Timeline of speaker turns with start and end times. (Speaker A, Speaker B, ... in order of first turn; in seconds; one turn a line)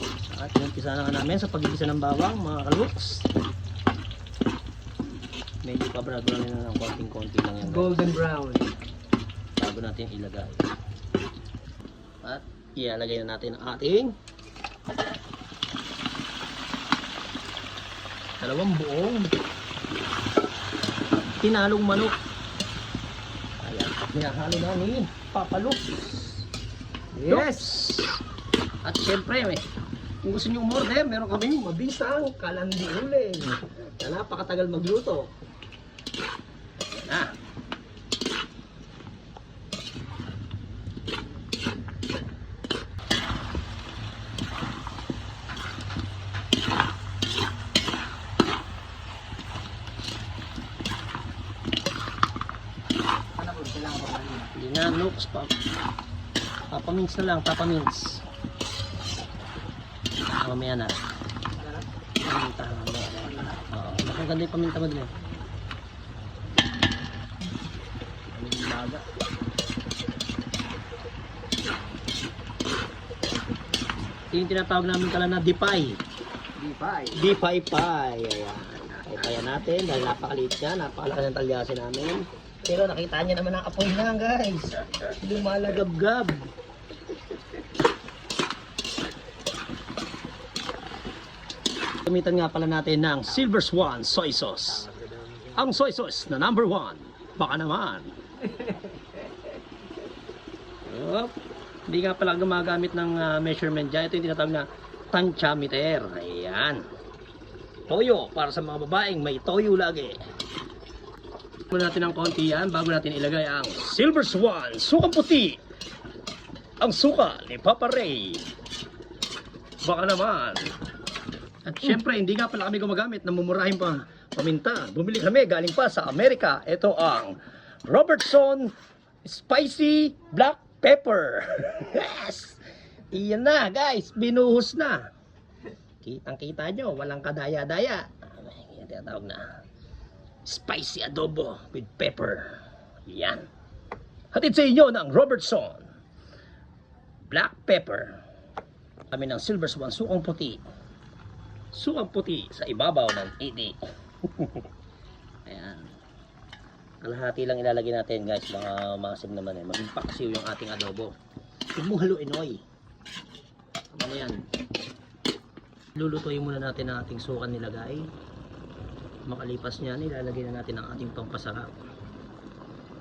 Speaker A: 0.3-3.2
Speaker A: 5.6-8.0
Speaker B: 7.6-8.7
Speaker A: 9.6-10.7
Speaker A: 12.2-14.1
Speaker A: 18.4-19.3
Speaker A: 21.4-22.1
Speaker A: 23.6-26.4
Speaker B: 27.1-27.7
Speaker A: 27.3-28.2
Speaker A: 28.8-29.6
Speaker A: 30.2-35.3
Speaker A: 36.9-37.3
Speaker B: 53.4-54.5
Speaker A: 54.5-55.5
Speaker A: 56.7-58.2
Speaker A: 60.4-61.0
Speaker B: 61.6-61.9
Speaker A: 62.2-65.1
Speaker B: 63.3-63.6
Speaker A: 68.3-69.0
Speaker A: 74.3-76.0
Speaker B: 76.6-77.1
Speaker A: 77.1-86.5
Speaker A: 92.0-94.9
Speaker B: 94.9-95.5
Speaker A: 95.5-98.1
Speaker B: 98.5-98.9
Speaker A: 100.8-101.3
Speaker A: 101.9-106.8
Speaker A: 107.9-110.2
Speaker A: 111.7-115.6
Speaker A: 116.8-118.5
Speaker A: 119.8-120.7
Speaker A: 121.6-128.7
Speaker A: 129.2-132.6
Speaker A: 133.1-135.0
Speaker A: 136.0-139.4
Speaker A: 140.4-143.5
Speaker A: 144.3-145.9
Speaker A: 147.3-148.2
Speaker A: 149.1-150.6
Speaker A: 151.7-154.6
Speaker A: 155.4-155.9
Speaker A: 157.0-161.1
Speaker A: 161.7-162.6
Speaker A: 163.9-164.4
Speaker A: 165.9-168.1
Speaker A: 169.3-171.7